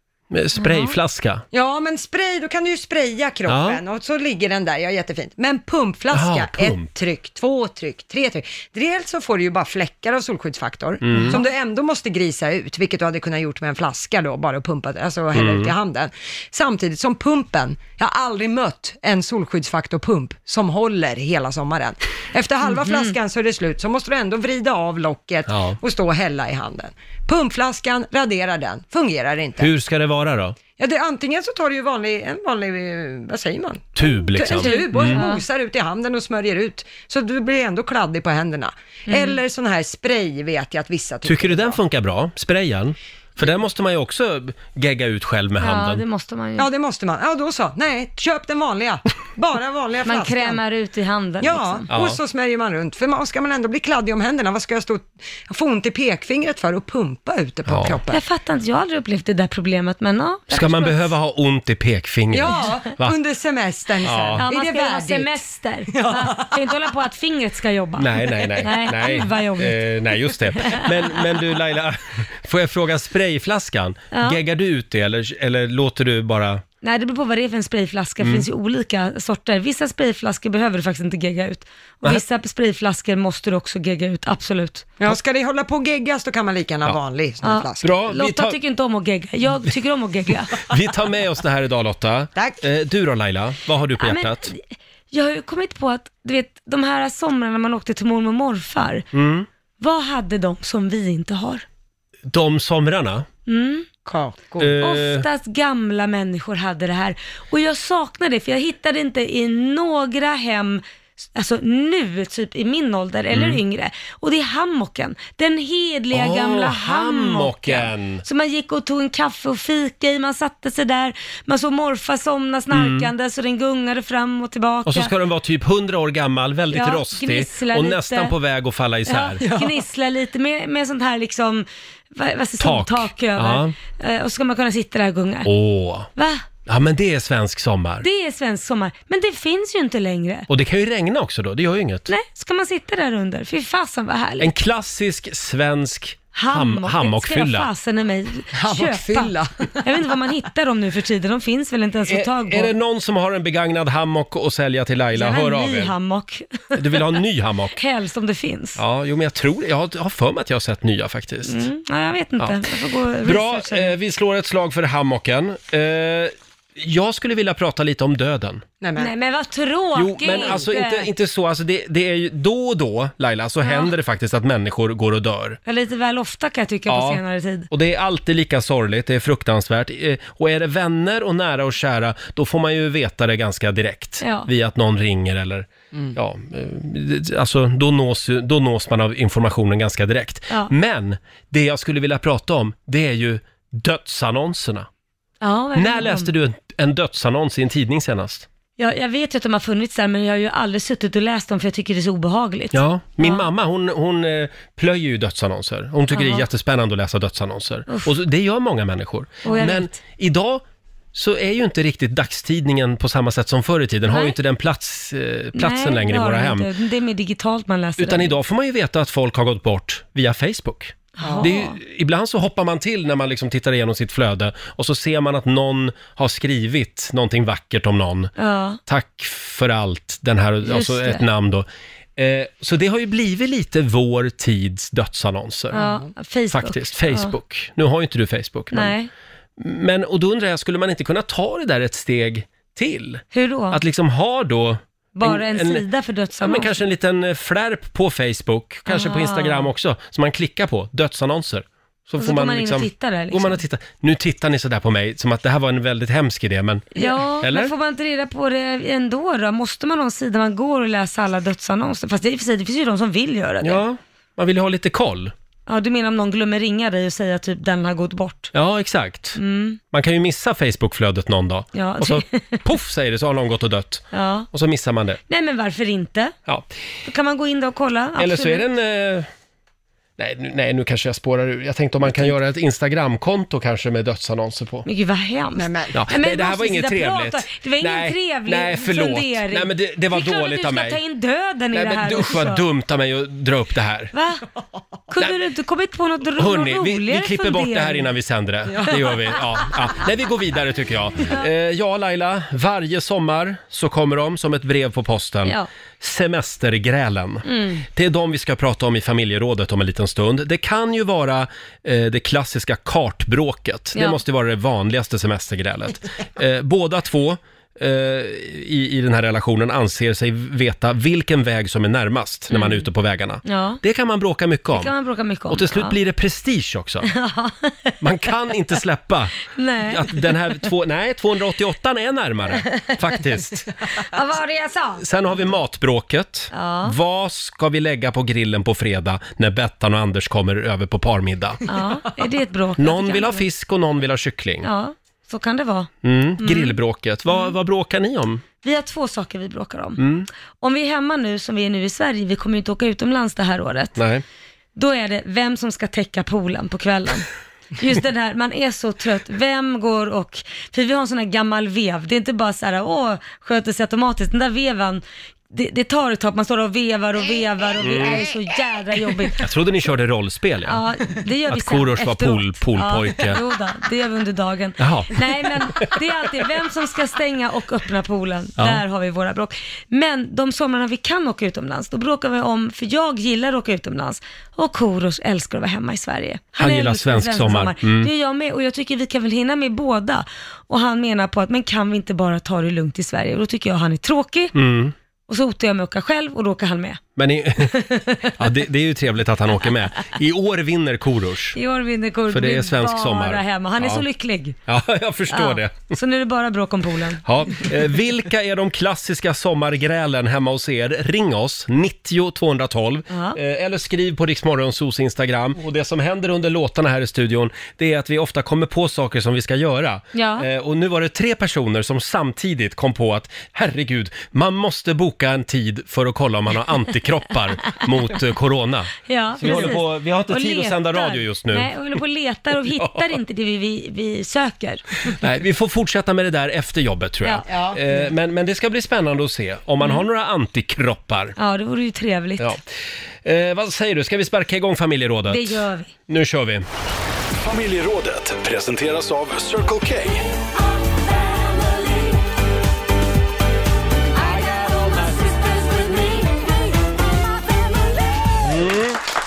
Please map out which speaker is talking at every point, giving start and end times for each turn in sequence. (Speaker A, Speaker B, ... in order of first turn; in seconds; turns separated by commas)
Speaker A: 0.3-1.4, Speaker B: 0.6-0.9, Speaker C: 1.5-29.7, Speaker A: 3.5-3.8, Speaker A: 6.1-6.9, Speaker A: 11.0-11.4, Speaker A: 15.3-15.7, Speaker B: 22.6-23.1, Speaker A: 25.5-25.8, Speaker A: 29.6-30.6, Speaker C: 30.8-41.8, Speaker A: 34.0-35.2, Speaker B: 34.5-35.4, Speaker B: 39.1-39.4, Speaker A: 41.2-46.0, Speaker B: 45.6-46.7, Speaker C: 46.6-50.6, Speaker B: 50.0-51.9, Speaker C: 51.4-58.2, Speaker A: 51.9-52.2, Speaker A: 57.7-58.0, Speaker B: 58.1-61.1, Speaker A: 60.5-63.1, Speaker C: 62.3-66.8, Speaker A: 64.0-64.4, Speaker B: 64.4-69.9, Speaker A: 68.0-76.6, Speaker B: 70.6-70.9, Speaker B: 74.1-74.4, Speaker B: 76.8-84.8, Speaker A: 78.2-78.5, Speaker C: 85.0-88.0, Speaker B: 87.4-90.7, Speaker A: 87.8-88.6, Speaker A: 90.7-94.5, Speaker C: 92.3-92.6, Speaker B: 94.0-99.1, Speaker A: 99.1-99.5, Speaker B: 99.8-101.6, Speaker A: 102.3-103.3, Speaker B: 103.5-103.9, Speaker C: 104.0-104.8, Speaker A: 104.6-105.2, Speaker B: 104.8-110.8, Speaker B: 111.3-125.1, Speaker A: 113.3-113.6, Speaker A: 116.1-118.2, Speaker A: 122.7-123.1, Speaker A: 124.8-129.4, Speaker B: 126.7-128.3, Speaker B: 129.1-135.5, Speaker C: 129.4-129.8, Speaker A: 132.6-133.7, Speaker A: 135.4-136.1, Speaker B: 136.1-136.4, Speaker A: 136.7-138.1, Speaker B: 138.0-140.5, Speaker A: 140.5-142.1, Speaker B: 142.1-144.5, Speaker A: 144.4-147.7, Speaker B: 146.3-149.3, Speaker C: 148.5-149.8, Speaker B: 149.8-152.7, Speaker A: 152.1-155.9, Speaker B: 155.1-157.1, Speaker A: 156.7-157.8, Speaker B: 157.8-158.8, Speaker A: 158.8-161.6, Speaker B: 161.5-163.9, Speaker A: 163.2-168.6, Speaker C: 168.8-169.1, Speaker B: 168.9-171.1, Speaker A: 169.9-175.6, Speaker B: 173.6-173.9, Speaker B: 175.7-177.7, Speaker A: 176.9-194.9, Speaker B: 184.2-184.5, Speaker B: 195.4-196.3, Speaker A: 195.8-198.5, Speaker B: 198.8-203.5, Speaker A: 202.7-210.6, Speaker B: 206.1-206.4, Speaker B: 207.9-208.1, Speaker B: 209.4-210.0, Speaker A: 211.1-216.7, Speaker B: 214.1-214.3, Speaker B: 215.6-218.3, Speaker A: 218.0-228.3, Speaker B: 221.2-221.8, Speaker C: 221.2-221.5, Speaker B: 228.4-228.8, Speaker A: 228.8-231.7, Speaker B: 230.6-231.2, Speaker A: 232.2-235.8, Speaker C: 235.7-236.1, Speaker B: 235.7-237.3, Speaker A: 236.5-238.9, Speaker B: 238.7-239.1, Speaker A: 239.6-245.8, Speaker B: 243.3-243.8, Speaker B: 245.1-246.8, Speaker A: 246.4-257.7, Speaker B: 248.9-249.7, Speaker B: 252.2-253.6, Speaker B: 256.9-263.8, Speaker A: 263.6-265.3, Speaker B: 265.7-268.5, Speaker A: 268.5-269.4, Speaker B: 269.4-269.8, Speaker A: 269.9-275.2, Speaker B: 271.7-272.6, Speaker B: 274.1-274.5, Speaker B: 275.3-276.3, Speaker B: 277.0-278.6, Speaker A: 278.2-279.3, Speaker A: 280.2-284.8, Speaker B: 284.9-292.6, Speaker C: 285.5-285.9, Speaker A: 285.9-291.0, Speaker A: 291.7-294.1, Speaker B: 294.1-294.4, Speaker B: 295.1-298.1, Speaker A: 296.4-324.9, Speaker B: 307.4-307.8, Speaker B: 313.9-314.2, Speaker B: 322.5-322.8, Speaker B: 323.4-323.8, Speaker B: 324.7-326.0, Speaker A: 325.5-327.1, Speaker B: 327.1-327.9, Speaker A: 328.0-333.7, Speaker B: 329.5-330.3, Speaker B: 332.6-332.9, Speaker B: 334.0-335.0, Speaker A: 335.0-341.6, Speaker B: 336.5-336.9, Speaker B: 341.7-343.4, Speaker A: 342.8-344.7, Speaker B: 344.6-346.8, Speaker A: 346.0-348.4, Speaker B: 347.3-347.5, Speaker B: 348.6-350.0, Speaker A: 350.0-350.3, Speaker B: 350.6-354.0, Speaker A: 354.0-354.2, Speaker B: 354.8-369.5, Speaker A: 367.8-368.3, Speaker A: 369.4-370.8, Speaker B: 370.6-394.5, Speaker A: 371.5-373.4, Speaker A: 374.8-376.0, Speaker A: 386.6-388.1, Speaker A: 394.5-394.9, Speaker B: 395.3-397.0, Speaker A: 397.2-397.7, Speaker B: 397.6-398.4, Speaker A: 398.4-401.6, Speaker B: 401.5-404.6, Speaker A: 402.3-404.0, Speaker A: 404.7-405.9, Speaker B: 405.3-407.6, Speaker A: 407.2-431.7, Speaker B: 413.1-413.4, Speaker B: 420.1-420.5, Speaker B: 429.1-435.2, Speaker A: 432.8-433.0, Speaker A: 435.1-441.4, Speaker B: 437.2-437.5, Speaker C: 437.5-437.8, Speaker B: 439.8-440.0, Speaker B: 441.4-442.5, Speaker A: 443.2-446.6, Speaker B: 445.3-445.9, Speaker D: 447.4-450.2, Speaker B: 454.5-456.0, Speaker A: 458.4-459.0